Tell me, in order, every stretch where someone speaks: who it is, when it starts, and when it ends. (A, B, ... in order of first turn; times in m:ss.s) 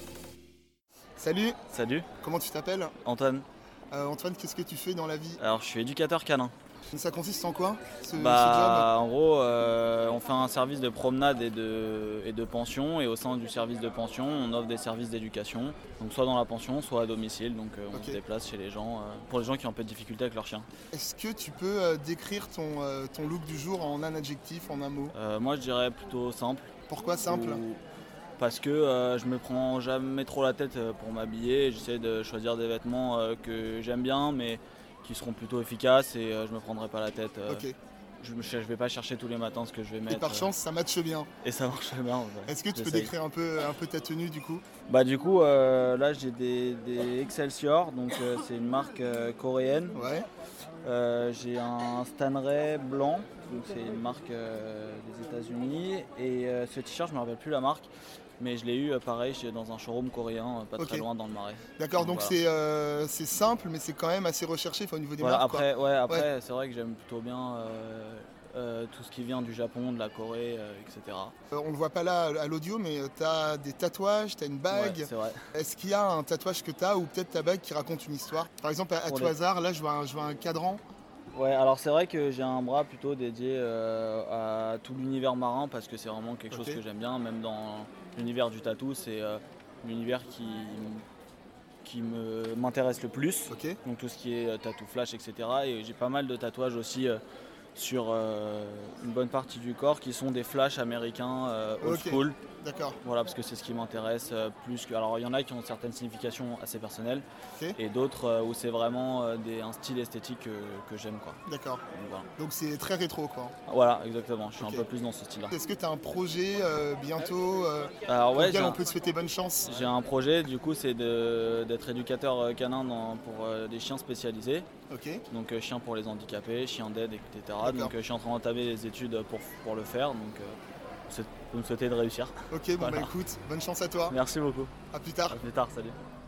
0:01.2-0:01.6 A
0:01.7-0:02.1 B
0:02.2-0:02.9 A
0:03.0-0:03.5 B
0:03.9-0:05.4 A
0:05.4-0:06.5 B
0:06.9-0:08.9 A
0:08.1-0:20.7 B
0:17.9-0:18.2 A
0:20.9-0:25.1 A
0:25.1-0:26.7 B
0:26.9-0:27.6 A
0:27.2-0:27.8 B
0:28.4-0:37.7 B
0:37.5-0:37.7 A
0:38.2-0:40.5 B
0:40.1-0:41.3 A
0:41.4-0:43.1 B
0:42.5-0:44.6 A
0:44.9-0:50.0 B
0:50.0-0:50.3 A
0:50.8-1:02.4 B
1:00.8-1:01.0 A
1:01.8-1:06.3 A
1:05.2-1:11.3 B
1:11.5-1:20.8 A
1:14.7-1:15.4 B
1:19.1-1:19.4 B
1:21.3-1:31.0 B
1:26.5-1:26.8 A
1:31.8-1:37.2 B
1:33.5-1:33.8 A
1:37.8-1:42.4 B
1:41.8-1:43.0 A
1:43.0-1:51.4 B
1:51.4-1:51.8 A
1:51.9-1:52.3 B
1:52.4-1:53.5 A
1:53.7-1:55.5 B
1:54.6-1:54.8 A
1:55.5-1:59.9 A
1:58.0-1:58.8 B
1:59.6-2:04.7 B
2:04.9-2:05.2 A
2:05.3-2:10.6 B
2:07.6-2:07.9 A
2:11.1-2:13.1 B
2:12.5-2:14.2 A
2:14.1-2:14.7 B
2:14.9-2:15.4 A
2:15.3-2:16.0 B